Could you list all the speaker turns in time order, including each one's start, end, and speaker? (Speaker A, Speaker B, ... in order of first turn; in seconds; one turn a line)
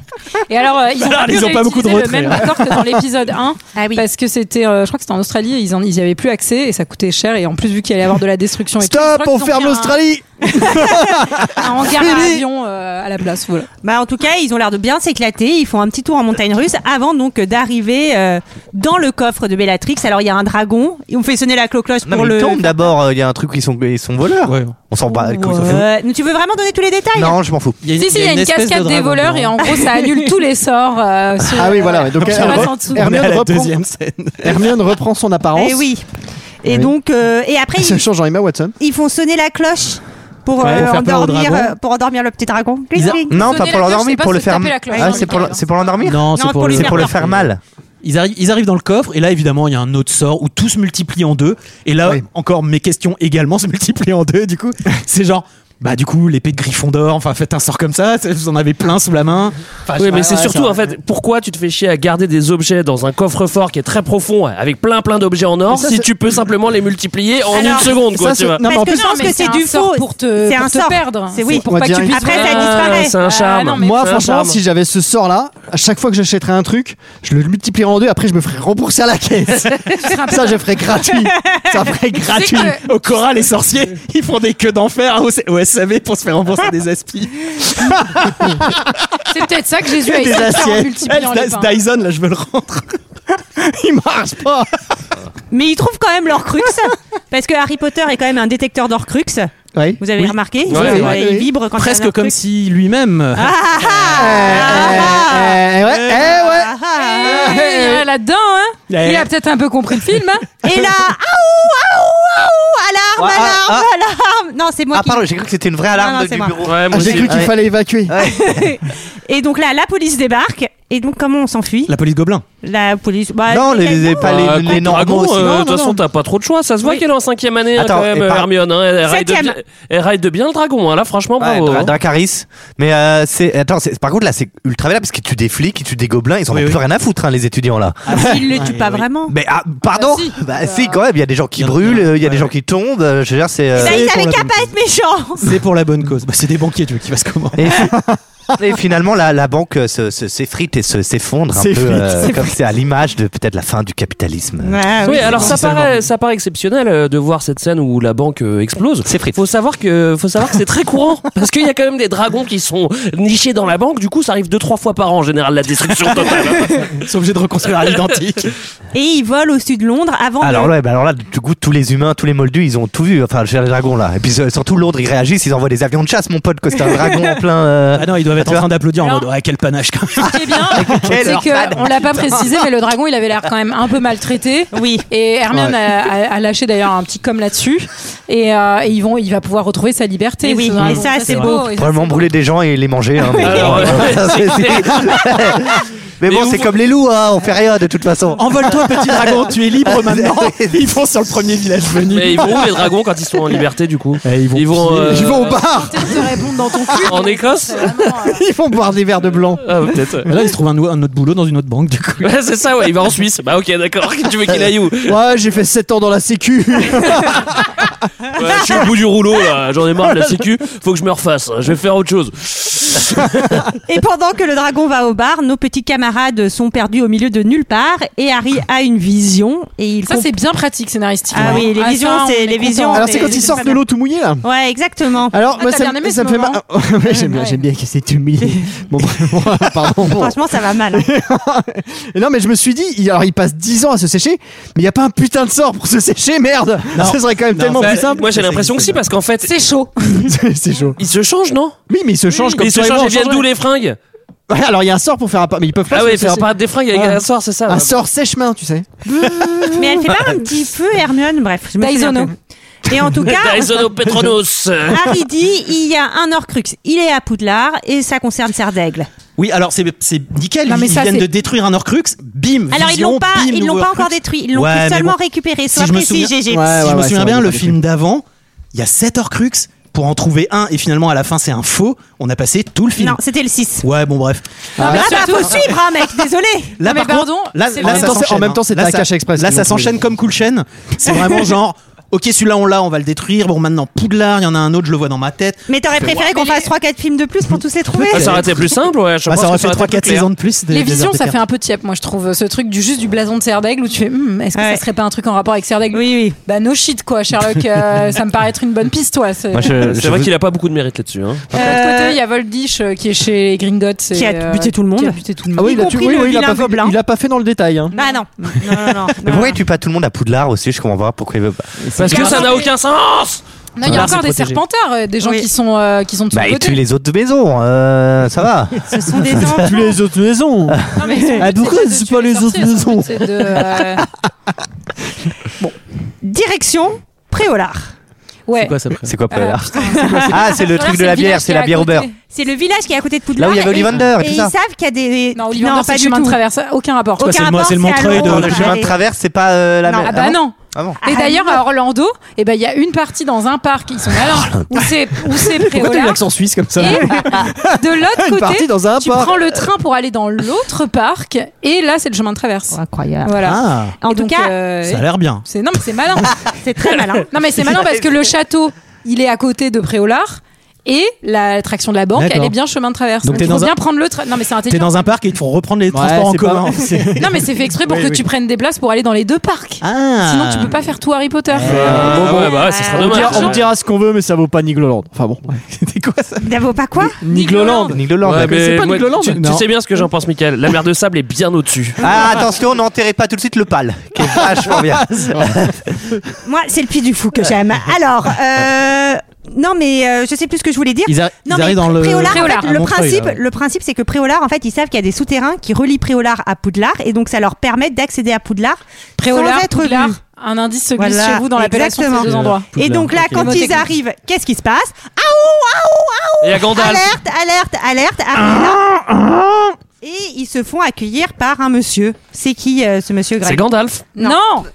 Speaker A: 0.5-13.7
Speaker B: 0.9-3.0
Speaker C: 3.7-4.0
Speaker D: 8.8-12.4
Speaker C: 13.8-22.7
Speaker E: 22.0-25.9
Speaker B: 24.4-24.8
Speaker C: 25.1-27.4
Speaker E: 27.1-27.8
Speaker B: 27.8-29.5
Speaker A: 28.0-33.0
Speaker C: 29.7-30.2
Speaker D: 31.5-33.9
Speaker B: 32.2-34.8
Speaker D: 34.4-35.9
Speaker C: 35.5-36.0
Speaker C: 36.6-38.0
Speaker D: 37.8-38.7
Speaker C: 38.8-43.4
Speaker B: 40.6-41.7
Speaker D: 40.6-40.9
Speaker B: 42.9-43.2
Speaker E: 43.3-47.6
Speaker A: 43.3-45.6
Speaker C: 44.9-45.5
Speaker B: 46.0-47.5
Speaker C: 46.3-47.2
Speaker B: 48.0-59.5
Speaker D: 59.9-60.8
Speaker F: 60.0-68.6
Speaker D: 65.7-66.1
Speaker C: 67.5-68.0
Speaker D: 67.6-69.3
Speaker C: 68.6-73.2
Speaker A: 68.7-74.2
Speaker D: 71.6-72.3
Speaker F: 72.4-74.6
Speaker D: 73.7-82.6
Speaker A: 79.6-80.6
Speaker B: 82.2-88.6
Speaker A: 82.3-82.8
Speaker D: 87.9-88.7
Speaker A: 89.3-91.7
Speaker D: 90.2-91.0
Speaker B: 90.3-92.8
Speaker D: 93.5-94.7
Speaker C: 95.5-102.4
Speaker D: 99.7-100.0
Speaker B: 100.2-101.2
Speaker D: 100.7-101.5
Speaker F: 100.7-101.1
Speaker B: 101.7-104.2
Speaker C: 103.3-105.6
Speaker D: 104.1-107.5
Speaker B: 105.9-106.3
Speaker C: 106.3-107.7
Speaker A: 107.1-110.4
Speaker B: 108.9-109.3
Speaker C: 110.6-115.2
Speaker E: 113.2-113.9
Speaker E: 114.9-117.5
Speaker C: 115.9-117.3
Speaker F: 116.6-117.3
Speaker D: 116.9-118.1
Speaker E: 118.1-118.7
Speaker C: 118.2-122.0
Speaker B: 121.9-122.4
Speaker C: 122.6-124.7
Speaker E: 123.5-125.6
Speaker F: 124.2-131.9
Speaker D: 125.3-126.0
Speaker E: 127.7-128.5
Speaker C: 129.0-129.6
Speaker E: 131.4-138.3
Speaker B: 136.5-136.8
Speaker B: 138.1-139.0
Speaker C: 138.1-139.3
Speaker E: 139.3-144.2
Speaker A: 139.9-140.9
Speaker B: 141.6-142.5
Speaker C: 143.7-145.6
Speaker B: 143.8-144.7
Speaker B: 145.4-147.7
Speaker E: 147.6-147.9
Speaker D: 147.9-148.2
Speaker E: 148.6-155.7
Speaker D: 151.5-152.5
Speaker C: 154.6-155.6
Speaker F: 155.0-166.9
Speaker B: 155.5-156.0
Speaker E: 159.1-159.3
Speaker B: 167.0-168.5
Speaker C: 168.9-170.7
Speaker E: 170.4-178.7
Speaker B: 177.9-180.8
Speaker A: 179.0-179.3
Speaker A: 180.2-192.3
Speaker E: 180.7-182.5
Speaker C: 184.7-185.1
Speaker C: 190.4-191.7
Speaker B: 190.8-191.5
Speaker E: 191.7-200.9
Speaker F: 193.4-195.5
Speaker F: 196.2-196.7
Speaker B: 198.4-202.8
Speaker F: 202.1-205.6
Speaker B: 204.2-205.4
Speaker D: 205.1-207.0
Speaker A: 205.5-208.4
Speaker F: 207.0-208.0
Speaker D: 208.3-209.9
Speaker F: 209.6-210.3
Speaker B: 210.3-212.3
Speaker F: 212.2-215.2
Speaker D: 215.0-217.9
Speaker F: 218.3-223.5
Speaker C: 223.8-230.3
Speaker A: 230.1-233.6
Speaker C: 231.3-233.8
Speaker D: 231.4-231.7
Speaker D: 232.9-234.4
Speaker C: 234.4-235.3
Speaker D: 235.3-240.4
Speaker A: 235.5-237.6
Speaker C: 239.9-241.1
Speaker D: 240.9-248.3
Speaker B: 246.9-248.9
Speaker F: 247.8-249.5
Speaker A: 249.4-250.3
Speaker D: 250.1-251.0
Speaker F: 251.0-251.8
Speaker D: 251.9-253.4
Speaker A: 252.3-252.6
Speaker F: 252.6-254.0
Speaker D: 254.5-260.0
Speaker F: 255.9-257.9
Speaker C: 259.8-262.3
Speaker A: 261.8-262.3
Speaker C: 262.9-263.9
Speaker F: 263.2-265.1
Speaker C: 264.9-269.1
Speaker B: 269.4-283.2
Speaker A: 270.7-271.3
Speaker C: 272.7-276.7
Speaker D: 276.5-277.8
Speaker C: 282.9-283.9
Speaker B: 283.8-284.9
Speaker C: 284.8-286.8
Speaker A: 284.8-285.6
Speaker D: 284.8-285.2
Speaker B: 286.8-295.6
Speaker A: 286.8-288.2
Speaker D: 287.8-290.1
Speaker D: 291.1-291.4
Speaker C: 295.7-298.5
Speaker A: 296.0-296.7
Speaker B: 298.0-301.4
Speaker F: 298.1-300.3
Speaker A: 300.7-309.7
Speaker C: 304.5-304.8
Speaker C: 305.9-306.4
Speaker E: 309.5-310.3
Speaker F: 309.6-311.5
Speaker C: 311.5-312.2
Speaker A: 311.5-315.6
Speaker C: 314.1-316.9
Speaker D: 315.6-317.9
Speaker A: 317.9-318.2
Speaker C: 317.9-319.6
Speaker E: 319.2-321.7
Speaker D: 321.8-322.5
Speaker F: 322.0-323.4
Speaker A: 322.1-322.7
Speaker A: 323.8-326.8
Speaker B: 323.9-324.5
Speaker F: 324.0-324.4
Speaker C: 325.2-325.5
Speaker E: 326.3-329.7
Speaker C: 328.9-329.9
Speaker D: 329.5-333.8
Speaker A: 330.9-334.0
Speaker C: 331.0-331.4
Speaker C: 336.2-337.9
Speaker A: 338.5-338.7
Speaker B: 338.6-339.1
Speaker E: 339.0-342.1
Speaker A: 339.3-342.1
Speaker C: 340.0-340.4
Speaker C: 342.3-346.4
Speaker E: 343.4-344.5
Speaker A: 345.4-347.5
Speaker C: 347.2-348.9
Speaker B: 347.2-348.8
Speaker E: 348.0-351.0
Speaker C: 349.9-350.2
Speaker A: 350.0-356.2
Speaker C: 351.0-351.6
Speaker D: 355.4-359.5
Speaker A: 356.8-366.4
Speaker C: 362.7-364.5
Speaker B: 363.4-363.9
Speaker B: 364.8-365.4
Speaker C: 366.5-367.3
Speaker A: 367.3-375.1
Speaker B: 372.1-372.5
Speaker B: 373.2-373.8
Speaker B: 374.7-377.2
Speaker D: 375.9-378.2
Speaker A: 377.2-382.3
Speaker B: 379.8-380.8
Speaker B: 381.5-382.5
Speaker D: 381.6-385.6
Speaker F: 381.7-383.7
Speaker C: 382.3-383.5
Speaker A: 382.9-383.5
Speaker B: 385.7-386.4
Speaker C: 386.4-387.2
Speaker A: 387.3-387.9
Speaker D: 387.3-389.2
Speaker E: 387.9-388.6
Speaker F: 388.2-392.0
Speaker B: 388.4-389.7
Speaker E: 392.0-396.1
Speaker B: 395.2-395.5
Speaker C: 396.4-410.2
Speaker B: 401.1-403.4
Speaker A: 402.2-402.7
Speaker A: 409.2-412.7
Speaker C: 411.0-418.8
Speaker B: 412.2-413.7
Speaker A: 413.2-413.8
Speaker F: 416.4-417.1
Speaker B: 418.3-419.7
Speaker C: 420.0-423.6
Speaker F: 423.4-424.0
Speaker A: 424.2-424.6